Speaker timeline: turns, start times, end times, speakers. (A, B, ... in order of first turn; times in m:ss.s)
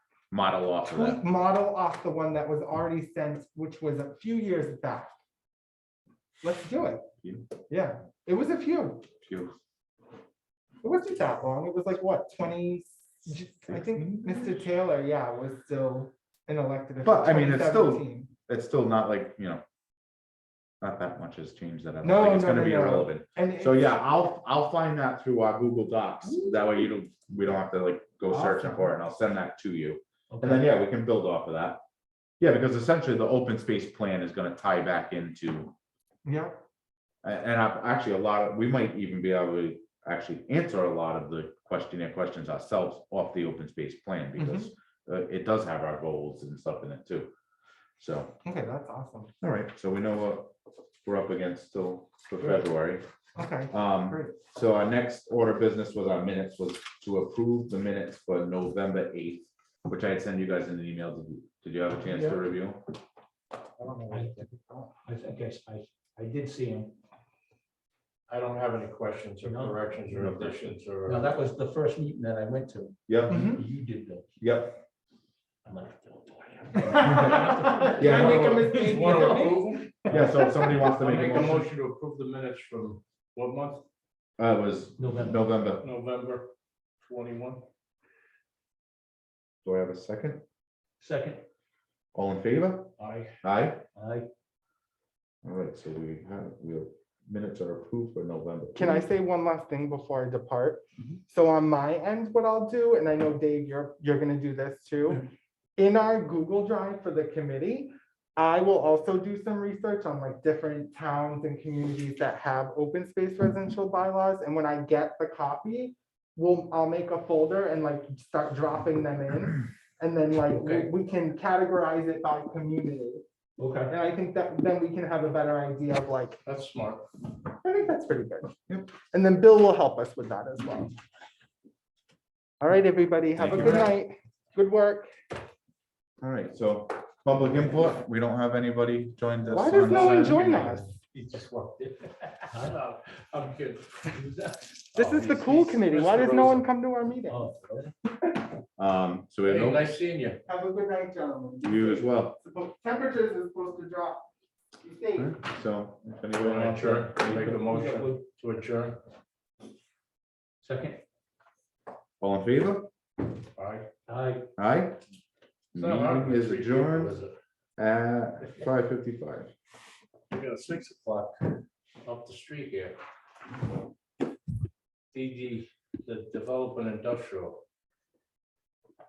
0:00.3-0:01.2 A
0:00.8-0:05.1 B
0:06.4-0:07.0 B
0:07.2-0:07.5 A
0:07.7-0:09.0 B
0:09.2-0:09.6 A
0:10.8-0:18.3 B
0:13.7-0:14.5 A
0:17.0-0:19.6 A
0:20.8-0:31.8 A
0:22.0-0:24.0 B
0:28.3-0:28.9 B
0:30.3-0:30.6 C
0:32.4-0:35.7 A
0:36.2-0:36.6 B
0:37.2-0:47.3 A
0:44.4-0:44.7 B
0:48.0-0:48.4 A
0:48.4-0:49.3 B
0:49.4-0:53.0 A
0:53.4-0:54.4 B
0:53.7-1:02.8 A
1:03.8-1:04.3 D
1:04.1-1:04.4 C
1:05.0-1:07.0 C
1:08.3-1:11.3 D
1:09.4-1:14.4 C
1:13.1-1:13.5 A
1:13.3-1:13.6 B
1:14.4-1:14.8 A
1:15.6-1:20.6 C
1:16.8-1:20.8 B
1:17.0-1:17.4 A
1:17.8-1:19.9 D
1:18.0-1:18.7 A
1:20.1-1:21.7 A
1:21.0-1:23.8 D
1:24.4-1:25.8 A
1:25.0-1:25.4 C
1:25.8-1:26.5 D
1:27.0-1:27.6 D
1:29.6-1:30.4 A
1:31.0-1:31.4 C
1:32.1-1:33.8 A
1:33.0-1:33.3 D
1:34.0-1:34.3 C
1:35.4-1:39.1 A
1:38.8-1:45.2 B
1:45.8-2:03.2 B
2:00.5-2:00.9 D
2:03.6-2:03.9 C
2:03.9-2:06.4 B
2:06.4-2:07.1 D
2:07.6-2:11.0 B
2:12.6-2:15.1 B
2:13.4-2:13.9 A
2:16.2-2:20.6 A
2:19.5-2:20.9 B
2:19.6-2:26.6 D
2:22.5-2:22.8 C
2:25.0-2:25.3 C
2:25.0-2:27.5 B
2:27.3-2:27.9 C
2:28.8-2:29.9 A
2:29.5-2:30.4 D
2:30.5-2:34.3 B
2:31.6-2:32.4 A
2:34.8-2:35.4 B
2:35.2-2:37.2 A
2:36.3-2:39.0 D
2:37.2-2:38.2 C
2:40.6-2:41.0 C
2:42.2-2:42.9 A
2:43.6-2:43.9 D
2:44.1-2:44.5 C
2:44.6-2:45.0 A
2:45.7-2:47.2 A
2:45.8-2:47.4 D
2:47.8-2:49.5 A
2:50.3-2:53.0 D
2:55.1-2:57.6 D